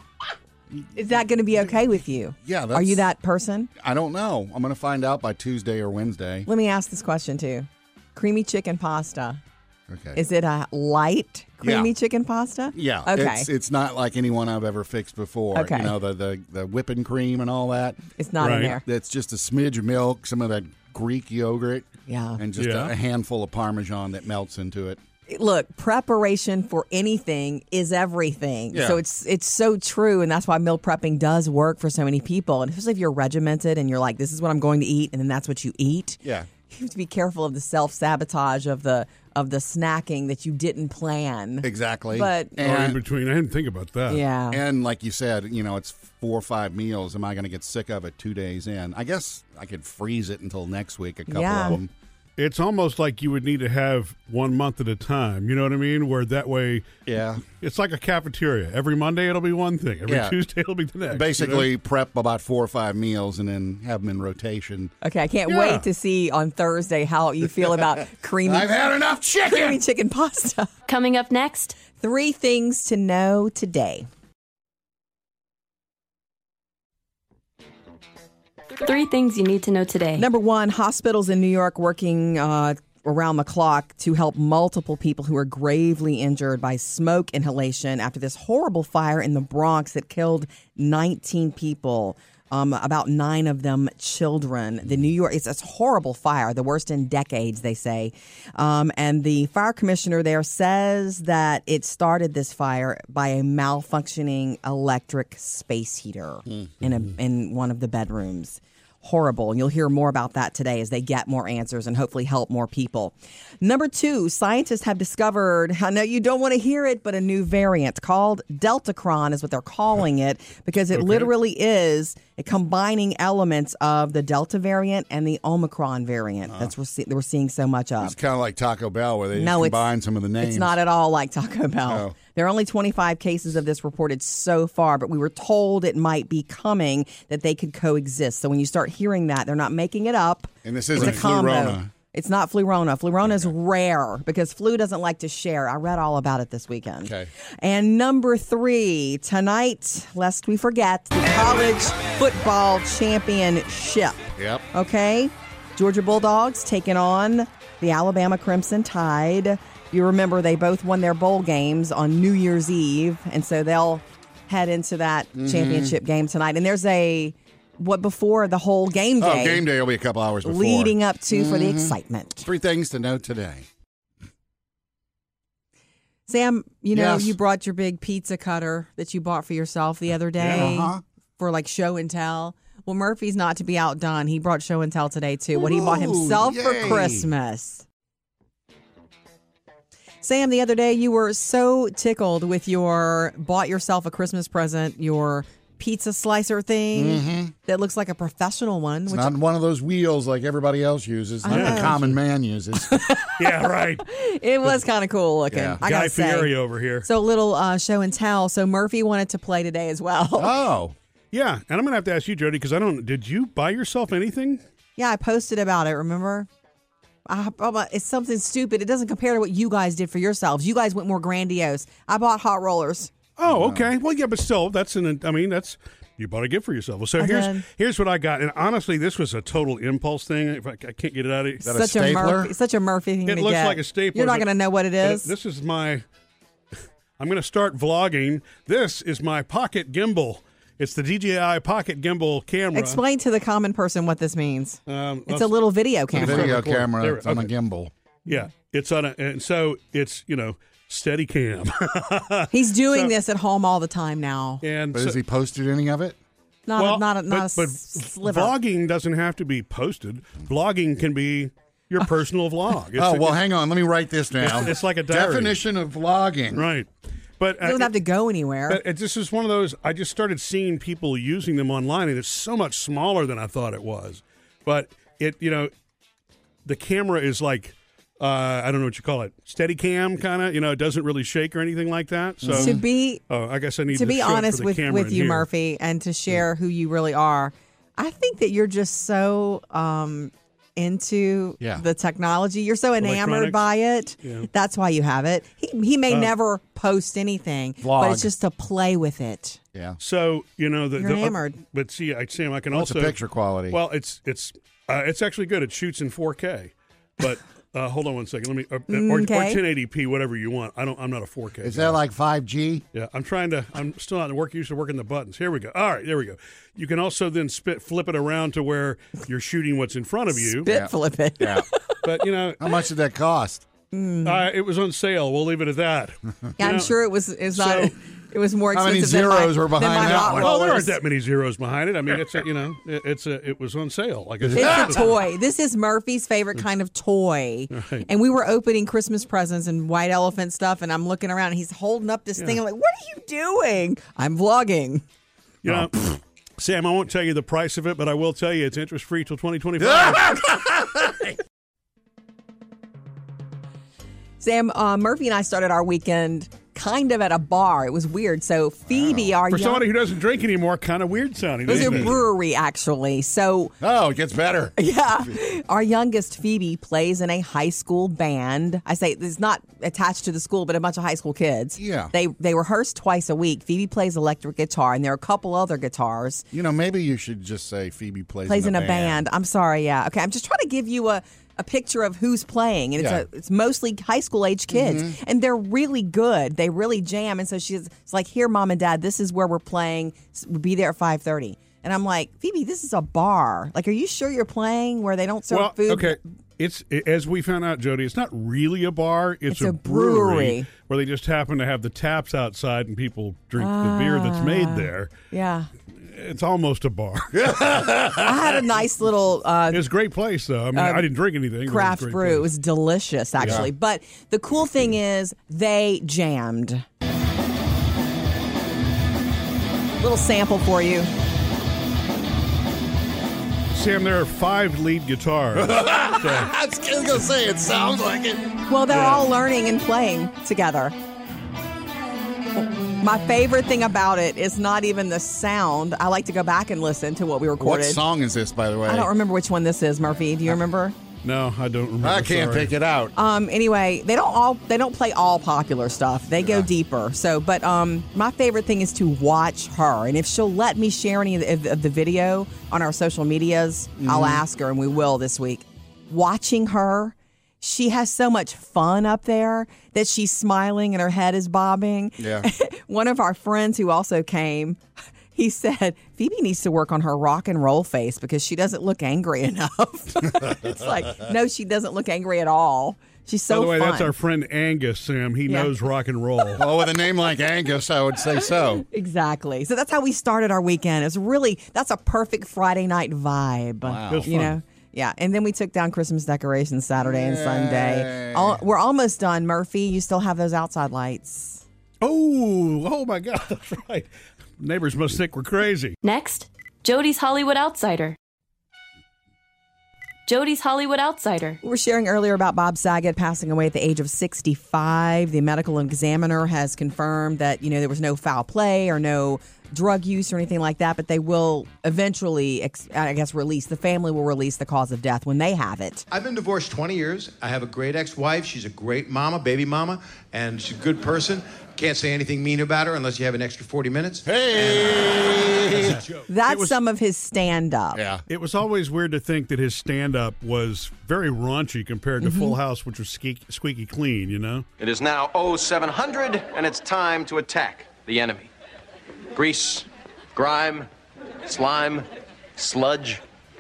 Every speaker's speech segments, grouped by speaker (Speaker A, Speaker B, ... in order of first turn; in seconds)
Speaker A: 0.7-1.0, 2.4-3.1, 3.8-6.5, 9.9-10.2, 11.6-11.9, 12.7-18.0, 18.7-25.0, 28.7-29.0, 36.2-36.5, 41.6-43.0, 44.5-51.9, 57.1-57.4, 60.1-60.4, 61.1-64.9, 68.4-69.8, 128.0-130.8, 131.8-132.2, 140.6-141.9, 147.0-147.3, 154.4-154.7, 165.3-166.0, 169.2-173.7, 176.9-177.4, 180.4-181.0, 185.5-187.3, 196.9-197.5, 199.1-203.0, 205.5-205.8, 210.4-210.9, 223.5-223.9, 231.6-232.5, 246.2-247.9, 254.9-256.2, 262.9-266.7, 282.4-282.8, 297.8-298.3, 299.7-300.0, 302.7-303.8, 311.6-312.9, 320.6-321.7, 322.6-323.7, 328.7-330.6, 334.4-335.1, 349.8-351.4, 358.9-359.3, 361.7-362.2, 363.8-365.4, 371.8-372.1, 376.5-379.3, 383.0-383.2, 384.7-385.2, 407.3-408.5, 413.4-413.7, 425.6-428.6, 437.6-439.1, 442.0-443.1, 446.4-446.7, 454.0-454.4, 462.2-462.5, 470.4-470.8, 476.6-478.9, 483.8-484.3, 487.0-488.6, 524.2-526.0, 527.9-528.2
Speaker B: 0.9-3.7, 6.5-9.4, 10.2-13.5, 15.5-15.9, 18.2-18.8, 22.1-22.4, 25.3-42.5, 44.1-44.6, 51.3-51.8, 65.0-68.9, 69.5-70.7, 72.0-74.1, 80.2-128.2, 129.3-129.9, 130.4-169.6, 170.4-172.5, 176.3-187.8, 190.2-199.3, 201.4-202.0, 202.8-206.5, 207.0-210.6, 215.0-216.5, 217.3-223.1, 227.2-227.7, 231.7-235.3, 242.7-246.6, 252.5-254.6, 256.7-258.5, 267.6-268.8, 282.5-283.2, 283.9-299.6, 301.0-301.6, 308.9-309.6, 320.3-322.0, 323.9-324.4, 326.6-330.9, 334.5-345.0, 354.4-359.9, 361.6-363.7, 364.8-376.4, 378.5-396.2, 399.5-400.7, 403.6-405.7, 408.2-409.9, 410.7-411.1, 411.6-416.9, 420.0-421.1, 428.7-430.9, 433.0-438.0, 438.9-441.0, 443.1-464.8, 465.3-474.1, 478.4-491.6, 501.6-516.1, 526.3-528.0, 532.2-532.6
Speaker C: 18.4-18.7, 22.6-22.9, 42.6-44.2, 52.4-56.9, 57.4-61.7, 120.9-121.3, 180.4-180.7, 201.5-202.2, 203.4-204.1, 205.8-207.1, 211.3-214.6, 223.4-231.7, 233.3-236.0, 237.2-243.0, 244.9-245.6, 246.1-247.5, 248.3-253.1, 254.6-255.2, 256.8-263.4, 264.4-265.6, 266.5-266.9, 267.4-267.9, 268.7-275.7, 276.6-285.5, 293.0-293.6, 294.2-294.5, 300.0-303.2, 303.7-312.0, 312.9-320.7, 322.0-322.7, 324.2-327.0, 327.5-327.9, 330.0-335.1, 337.7-338.1, 345.6-350.3, 359.5-362.2, 395.5-405.1, 406.0-407.4, 409.7-412.5, 423.7-426.5, 428.9-429.3, 441.2-442.7, 473.5-476.6, 484.1-484.6, 492.0-496.0, 526.5-526.8, 528.3-534.7
Speaker D: 70.9-71.8, 78.8-80.3, 496.0-498.2, 500.3-501.6
Speaker E: 516.1-526.2
Speaker F: 534.8-538.5, 539.3-540.9, 541.5-543.2